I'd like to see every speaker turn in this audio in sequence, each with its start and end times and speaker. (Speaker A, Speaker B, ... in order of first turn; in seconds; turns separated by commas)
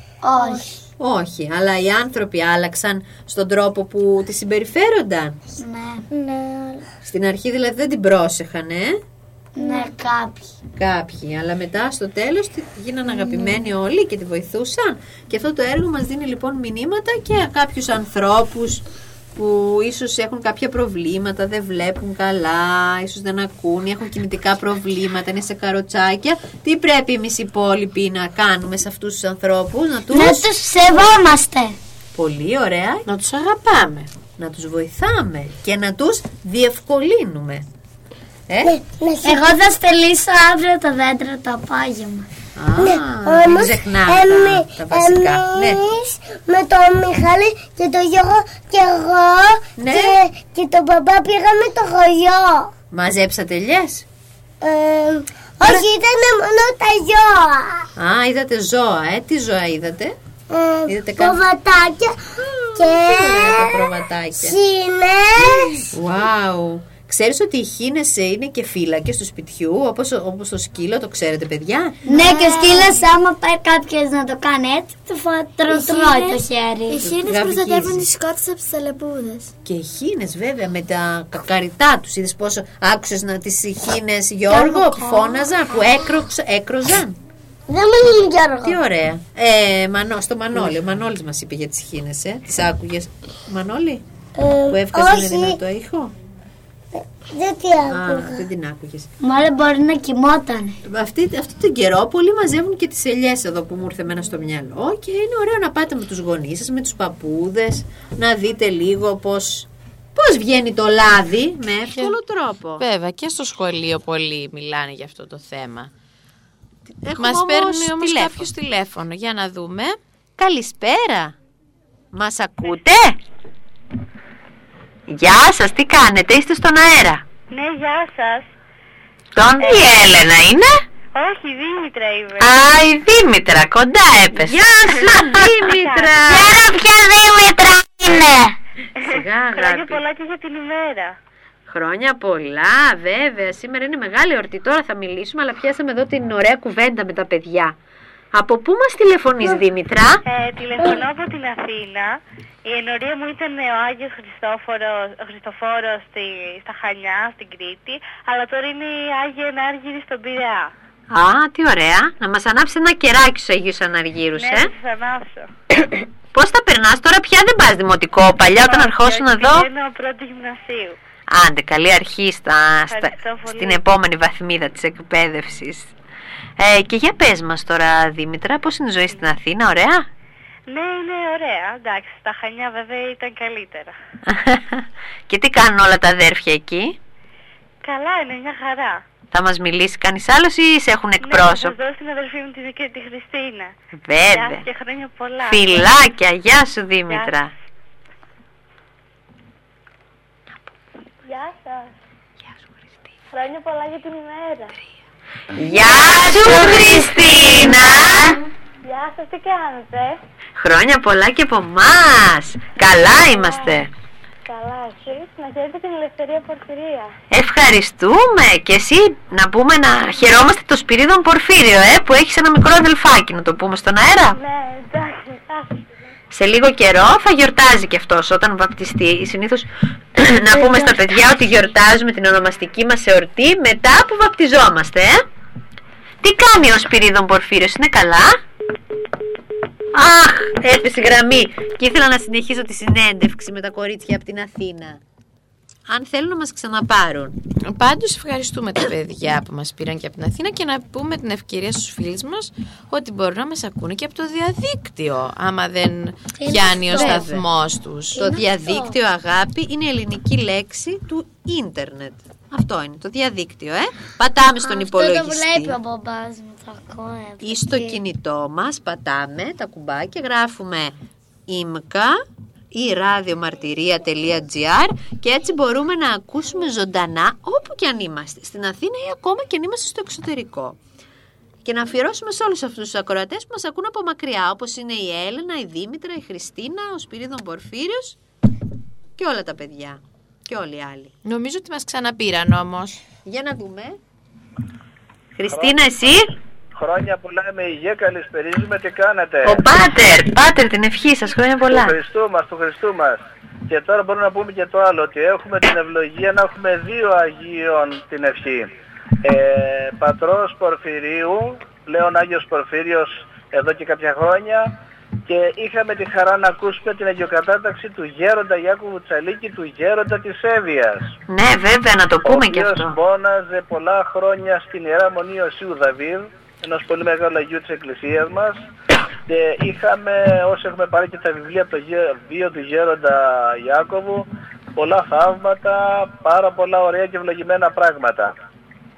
Speaker A: 0.2-0.8, Speaker B: 0.3-0.8, Speaker C: 1.0-5.4, Speaker A: 5.6-6.0, Speaker B: 6.1-6.9, Speaker C: 7.0-9.0, Speaker A: 9.5-10.5, Speaker B: 9.6-9.9, Speaker C: 10.7-30.4, Speaker B: 13.1-13.6, Speaker A: 30.1-31.8, Speaker C: 32.1-33.1, Speaker D: 33.0-34.1, Speaker C: 34.4-37.6, Speaker C: 38.5-38.7, Speaker B: 38.6-39.5, Speaker A: 39.2-42.3, Speaker C: 42.6-45.9, Speaker D: 42.7-43.3, Speaker B: 42.8-52.7, Speaker C: 49.8-50.2, Speaker C: 52.9-54.0, Speaker B: 54.6-57.9, Speaker C: 55.6-55.9, Speaker C: 58.0-60.2, Speaker B: 60.5-62.2, Speaker C: 60.9-61.4, Speaker C: 62.4-64.6, Speaker B: 62.8-65.9, Speaker C: 65.9-72.0, Speaker B: 72.0-73.0, Speaker A: 72.1-77.0, Speaker B: 75.7-76.2, Speaker E: 76.0-76.3, Speaker E: 76.9-79.5, Speaker C: 77.0-78.1, Speaker C: 79.6-87.2, Speaker B: 84.6-85.4, Speaker B: 87.7-88.8, Speaker C: 88.6-94.0, Speaker B: 94.3-95.6, Speaker C: 94.7-96.1, Speaker B: 97.3-98.4, Speaker C: 97.9-99.1, Speaker A: 99.2-100.8, Speaker C: 100.8-112.8, Speaker D: 112.8-115.9, Speaker C: 116.9-118.5, Speaker D: 117.2-120.0, Speaker C: 120.4-121.3, Speaker C: 122.1-123.2, Speaker C: 125.1-127.2, Speaker F: 127.5-128.5, Speaker C: 129.3-130.0, Speaker D: 129.6-130.8, Speaker F: 129.6-129.9, Speaker F: 131.1-132.6, Speaker D: 132.4-134.6, Speaker C: 134.3-136.6, Speaker F: 134.9-136.4, Speaker F: 139.0-141.1, Speaker C: 139.0-140.0, Speaker C: 141.7-147.8, Speaker C: 148.3-150.2, Speaker F: 150.3-152.1, Speaker F: 152.7-160.7, Speaker C: 161.1-164.7, Speaker F: 164.3-165.5, Speaker C: 166.3-169.7, Speaker F: 168.6-171.0, Speaker C: 171.3-175.9, Speaker F: 172.9-173.8, Speaker C: 176.6-180.1, Speaker F: 180.7-183.9, Speaker C: 184.2-187.0, Speaker F: 187.8-189.0, Speaker C: 189.3-191.8, Speaker F: 191.2-193.7, Speaker C: 194.0-194.6, Speaker F: 194.3-195.9, Speaker C: 195.4-197.5, Speaker F: 197.1-197.3, Speaker F: 201.2-201.9, Speaker F: 203.3-204.8, Speaker C: 205.6-208.4, Speaker F: 208.8-210.2, Speaker C: 210.6-213.9, Speaker F: 213.2-213.8, Speaker F: 214.4-217.1, Speaker C: 217.3-224.4, Speaker F: 224.3-225.8, Speaker C: 226.3-235.3, Speaker C: 236.2-238.4, Speaker C: 239.9-245.0, Speaker C: 245.9-247.4, Speaker D: 247.6-258.1, Speaker A: 256.4-257.2, Speaker C: 256.9-257.4, Speaker C: 258.1-265.8, Speaker A: 258.1-258.9, Speaker A: 264.6-268.0, Speaker C: 267.4-270.9, Speaker C: 271.5-272.2, Speaker C: 272.7-280.8, Speaker C: 281.6-288.2, Speaker C: 289.2-291.1, Speaker D: 291.2-293.0, Speaker C: 293.2-294.0, Speaker C: 295.3-296.3, Speaker G: 295.5-296.1, Speaker G: 296.8-299.6, Speaker C: 299.4-302.0, Speaker G: 301.7-308.7, Speaker G: 309.2-314.7, Speaker G: 315.3-321.1, Speaker C: 321.3-323.0, Speaker G: 322.2-328.6, Speaker G: 329.3-338.3